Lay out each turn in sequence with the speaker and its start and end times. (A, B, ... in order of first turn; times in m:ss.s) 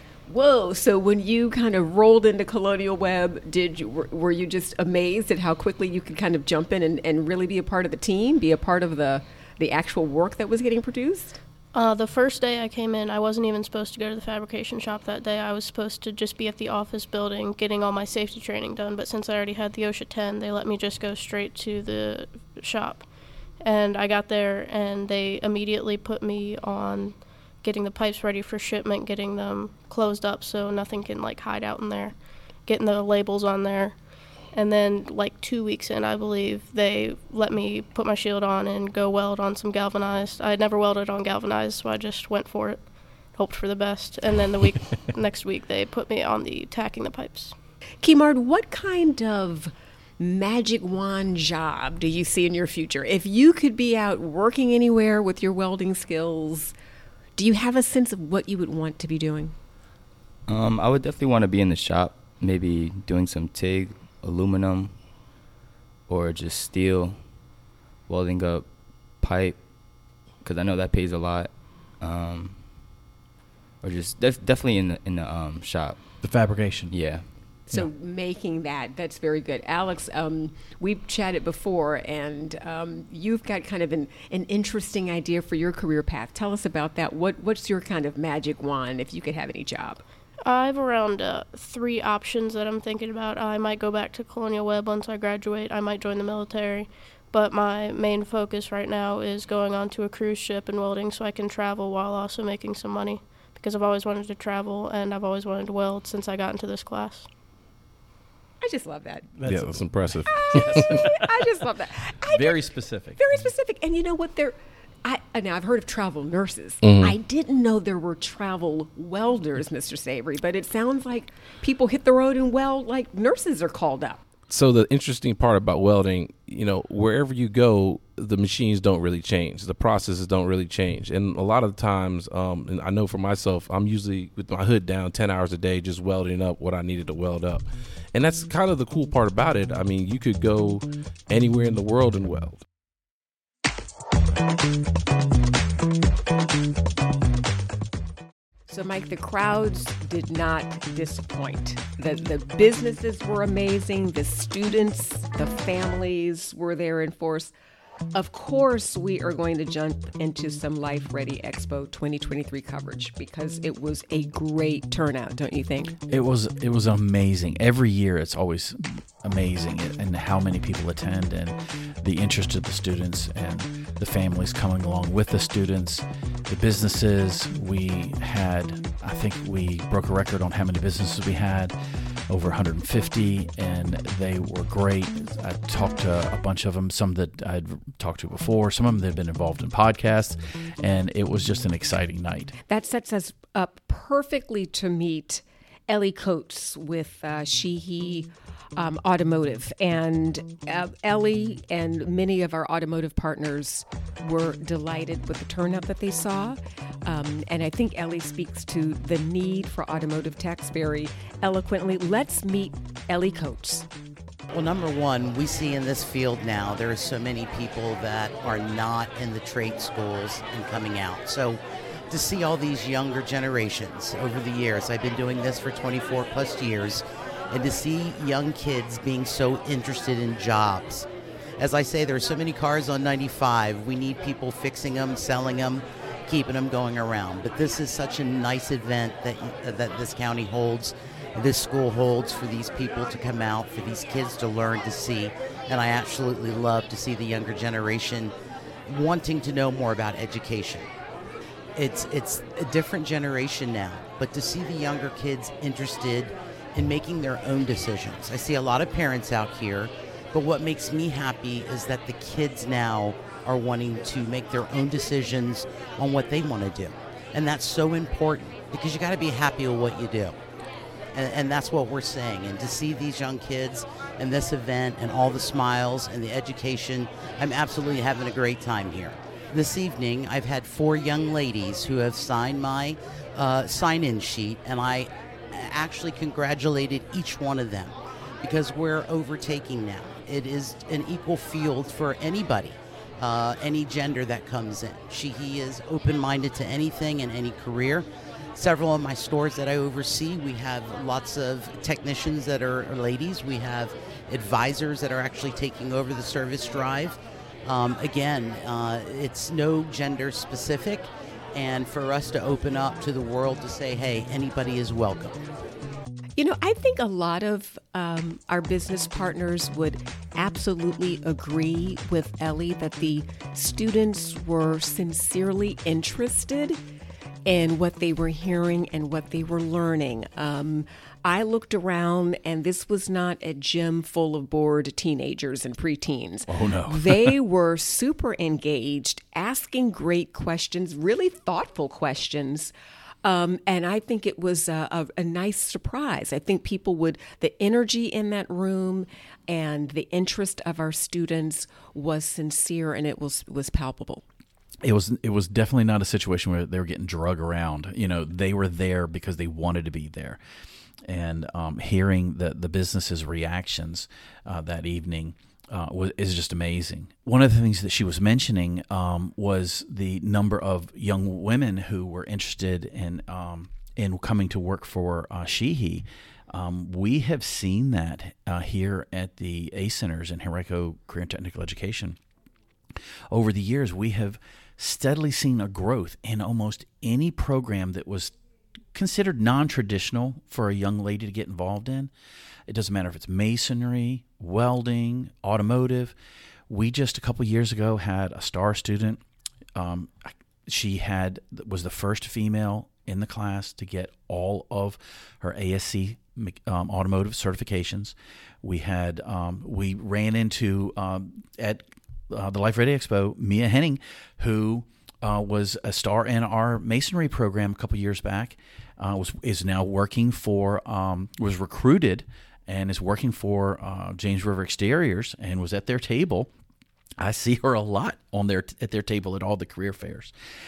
0:00.3-0:11.4 A
0:11.7-0:23.1 B
0:23.6-0:34.0 B
0:34.5-0:47.5 B
0:48.0-0:56.7 A
0:57.4-0:59.5 A
1:00.5-1:05.3 C
1:06.1-1:12.9 C
1:13.8-1:16.2 C
1:16.2-1:16.9 D
1:16.9-1:17.4 C
1:17.6-1:30.0 A
1:30.4-1:47.3 B
1:48.6-1:49.4 A
1:49.4-1:51.3 D
1:49.4-1:51.1 E
1:50.2-2:04.2 A
1:52.3-1:53.2 D
1:56.8-1:57.2 E
2:04.5-2:22.6 E
2:28.7-2:37.5 A
2:38.1-2:45.9 A
2:46.1-3:01.7 D
3:02.3-3:12.5 D
3:12.7-3:33.9 A
3:34.5-3:51.1 F
3:51.6-4:08.3 F
4:08.9-4:10.9 F
4:11.8-4:30.4 F
4:31.1-5:15.4 F
5:16.4-5:26.8 A
5:27.4-5:42.7 A
5:36.5-5:37.4 D
5:43.2-5:54.2 A
5:54.8-6:00.4 D
6:01.0-6:22.2 D
6:23.3-6:28.3 D
6:28.9-6:32.1 D
6:32.7-6:36.1 D
6:36.7-6:39.2 D
6:39.8-7:06.5 D
7:07.2-7:10.3 D